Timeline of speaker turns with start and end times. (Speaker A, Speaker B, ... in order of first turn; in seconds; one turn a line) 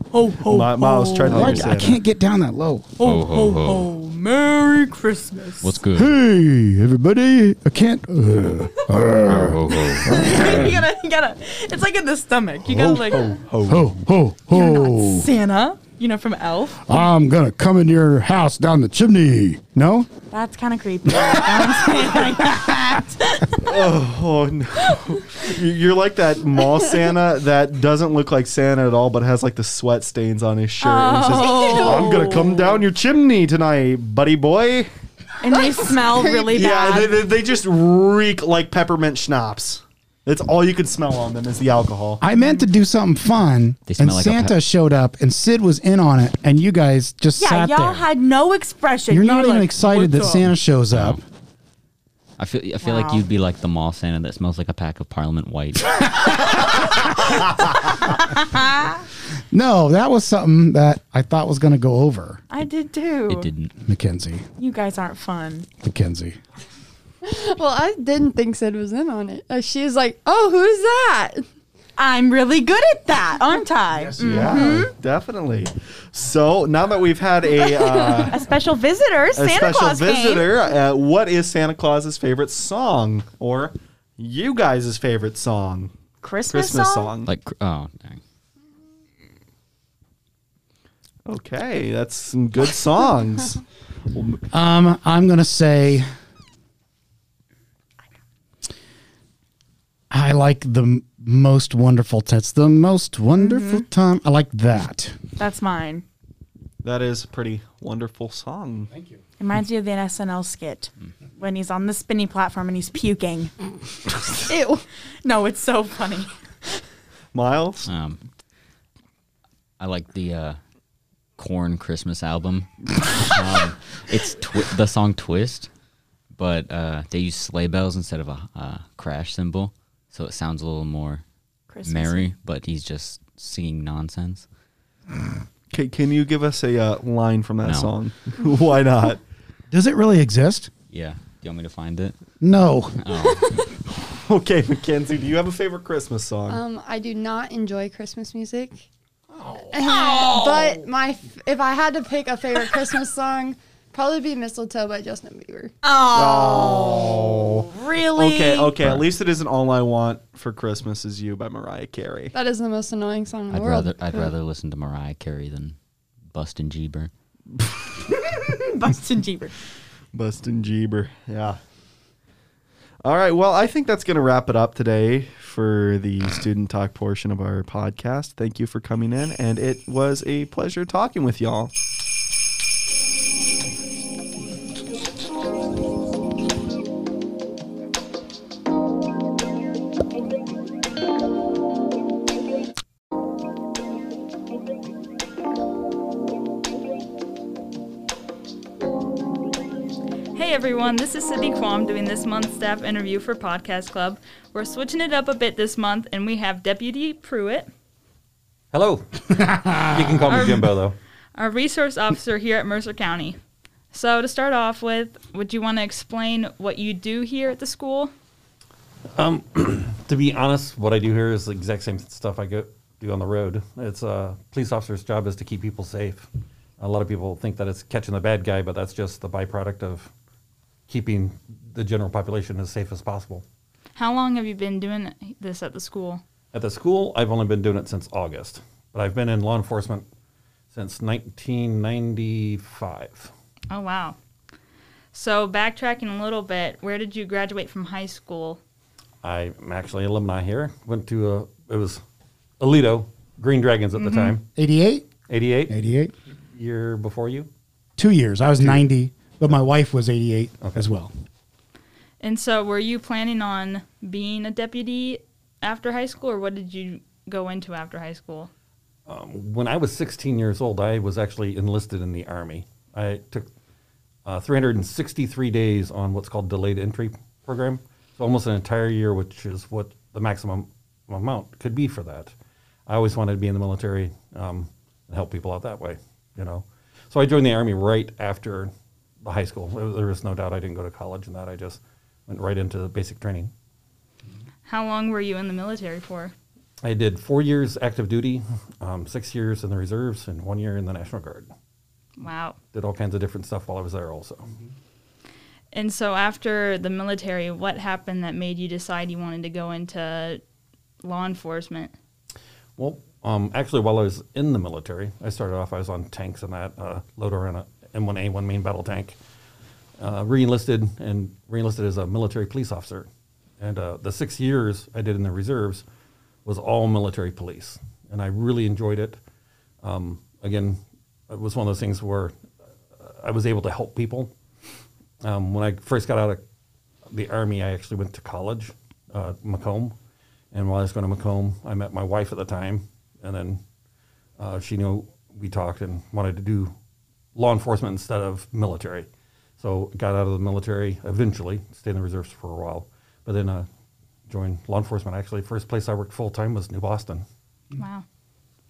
Speaker A: 0.1-1.7
Speaker B: 0.4-2.0
Speaker C: 1.3-2.9
Speaker A: 3.0-5.8
Speaker D: 3.0-3.9
Speaker D: 5.6-6.2
Speaker C: 5.9-10.8
Speaker D: 9.3-10.2
Speaker A: 10.0-13.4
Speaker C: 12.7-15.3
Speaker B: 13.4-13.8
Speaker A: 14.5-17.0
Speaker C: 16.9-20.1
Speaker A: 20.3-23.8
Speaker C: 21.1-22.8
Speaker B: 23.6-34.9
Speaker A: 30.8-32.9
Speaker A: 35.4-37.2
Speaker B: 36.5-42.2
Speaker C: 42.2-48.1
Speaker D: 43.9-44.6
Speaker A: 47.4-50.5
Speaker C: 49.1-51.2
Speaker D: 50.9-51.2
Speaker D: 52.4-56.6
Speaker A: 52.8-53.2
Speaker A: 58.6-58.9
Speaker C: 59.5-62.4
Speaker A: 62.5-63.5
Speaker D: 63.3-63.7
Speaker C: 63.8-64.5
Speaker A: 64.6-65.7
Speaker C: 65.8-66.4
Speaker E: 67.2-71.5
Speaker A: 72.0-74.9
Speaker C: 73.9-74.7
Speaker B: 74.2-78.5
Speaker A: 77.9-80.5
Speaker B: 79.4-85.9
Speaker A: 86.2-87.2
Speaker B: 86.5-87.3
Speaker D: 87.2-88.2
Speaker B: 91.3-94.4
Speaker C: 94.5-96.1
Speaker C: 100.1-105.2
Speaker A: 103.4-103.9
Speaker A: 105.4-106.0
Speaker B: 106.8-108.9
Speaker C: 108.9-109.2
Speaker A: 109.4-113.5
Speaker A: 114.5-116.8
Speaker B: 117.3-117.9
Speaker D: 117.9-118.2
Speaker D: 119.8-120.6
Speaker D: 121.4-125.7
Speaker D: 126.3-131.2
Speaker A: 131.7-132.3
Speaker D: 131.8-134.4
Speaker B: 135.7-139.2
Speaker D: 137.6-137.9
Speaker C: 139.7-140.7
Speaker D: 140.9-142.2
Speaker C: 142.4-143.3
Speaker D: 143.0-143.6
Speaker B: 144.1-146.6
Speaker E: 146.5-148.9
Speaker C: 149.4-150.0
Speaker E: 149.7-155.7
Speaker A: 150.2-150.5
Speaker A: 155.8-158.9
Speaker B: 156.1-162.3
Speaker D: 158.8-159.1
Speaker E: 162.3-164.3
Speaker D: 163.5-165.8
Speaker D: 166.3-167.1
Speaker A: 168.5-169.5
Speaker B: 170.1-171.6
Speaker B: 173.0-181.7
Speaker F: 200.3-207.7
Speaker G: 208.7-211.0
Speaker C: 209.3-210.4
Speaker F: 210.3-210.8
Speaker F: 211.4-213.4
Speaker F: 213.9-218.1
Speaker G: 219.2-226.3
Speaker G: 226.8-230.1
Speaker G: 230.9-233.4
Speaker F: 234.0-236.2
Speaker G: 236.5-240.1
Speaker G: 240.7-243.3
Speaker F: 243.7-244.2
Speaker F: 245.1-248.6
Speaker G: 249.2-252.0
Speaker G: 252.6-254.4
Speaker F: 254.0-254.4
Speaker C: 254.6-255.1
Speaker G: 255.3-255.8
Speaker C: 255.7-256.1
Speaker G: 256.5-257.5
Speaker C: 258.0-261.1
Speaker F: 262.2-268.5
Speaker G: 269.1-273.5
Speaker G: 274.3-282.3
Speaker G: 282.9-288.7
Speaker G: 289.2-293.5
Speaker F: 294.7-296.4
Speaker G: 296.8-301.5
Speaker F: 302.2-302.6
Speaker G: 302.7-304.5
Speaker F: 305.7-310.4
Speaker F: 311.0-311.9
Speaker G: 312.8-319.2
Speaker G: 320.0-323.1
Speaker G: 323.6-325.9
Speaker G: 326.4-329.2
Speaker G: 329.8-332.3
Speaker G: 333.0-334.3
Speaker G: 335.2-336.4
Speaker G: 337.1-339.9
Speaker G: 340.5-343.6
Speaker G: 344.4-346.7
Speaker G: 347.4-349.1
Speaker G: 349.6-353.7
Speaker G: 354.3-357.2
Speaker F: 357.8-358.1